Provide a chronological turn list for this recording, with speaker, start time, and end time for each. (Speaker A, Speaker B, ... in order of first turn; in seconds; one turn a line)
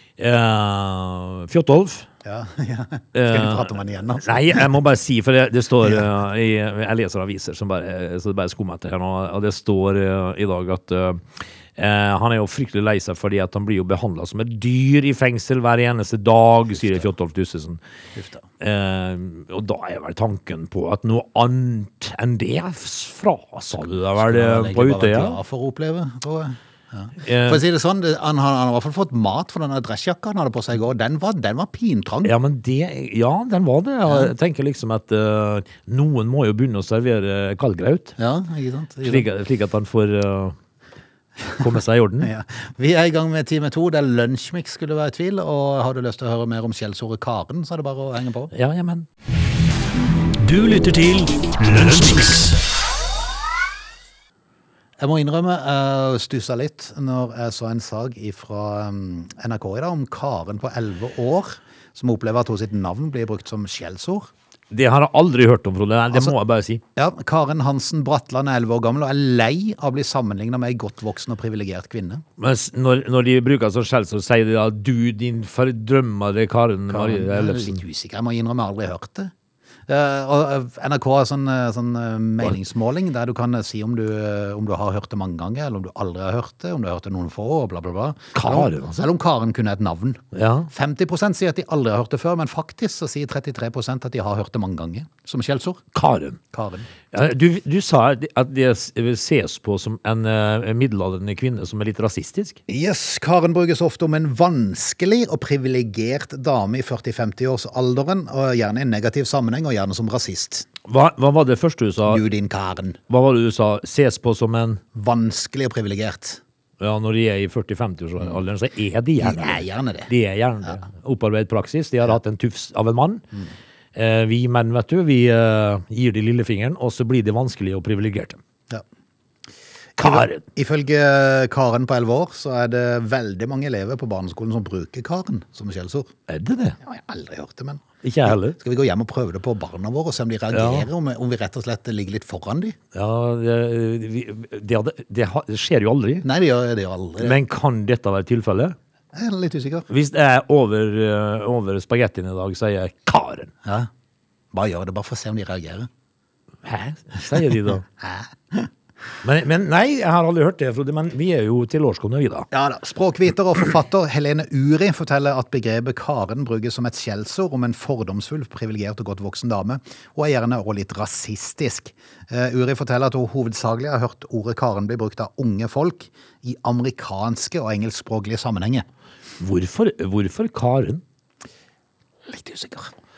Speaker A: 0.2-2.1
Speaker B: 2.2-4.7
Speaker A: 3.1-17.8
Speaker B: 18.1-18.5
Speaker A: 18.6-25.4
Speaker B: 24.2-32.3
Speaker A: 27.2-27.6
Speaker A: 32.2-38.2
Speaker B: 38.2-39.3
Speaker A: 39.0-40.6
Speaker A: 41.6-42.3
Speaker B: 42.2-48.5
Speaker A: 48.5-49.1
Speaker C: 50.4-52.6
Speaker B: 55.0-64.3
Speaker A: 64.7-66.8
Speaker B: 67.0-72.2
Speaker A: 72.4-77.8
Speaker B: 76.9-79.3
Speaker B: 79.9-95.8
Speaker A: 88.3-89.0
Speaker A: 90.3-90.7
Speaker A: 95.9-96.4
Speaker B: 96.5-96.9
Speaker A: 97.1-102.6
Speaker B: 102.7-110.7
Speaker A: 110.8-112.2
Speaker B: 112.1-113.0
Speaker A: 113.1-114.8
Speaker B: 114.9-116.4
Speaker A: 116.8-123.2
Speaker B: 119.2-120.1
Speaker A: 124.0-128.4
Speaker B: 130.0-136.1
Speaker A: 130.0-130.4
Speaker A: 136.3-136.8
Speaker B: 136.8-142.8
Speaker A: 138.0-138.6
Speaker A: 140.5-140.9
Speaker A: 142.9-146.2
Speaker B: 146.2-147.4
Speaker A: 147.2-148.8
Speaker B: 149.1-149.9
Speaker A: 149.9-153.5
Speaker B: 153.6-153.9
Speaker B: 154.5-155.9
Speaker A: 156.6-157.8
Speaker B: 158.0-158.7
Speaker A: 159.2-162.5
Speaker B: 162.5-178.9
Speaker A: 179.4-181.0
Speaker B: 182.3-182.9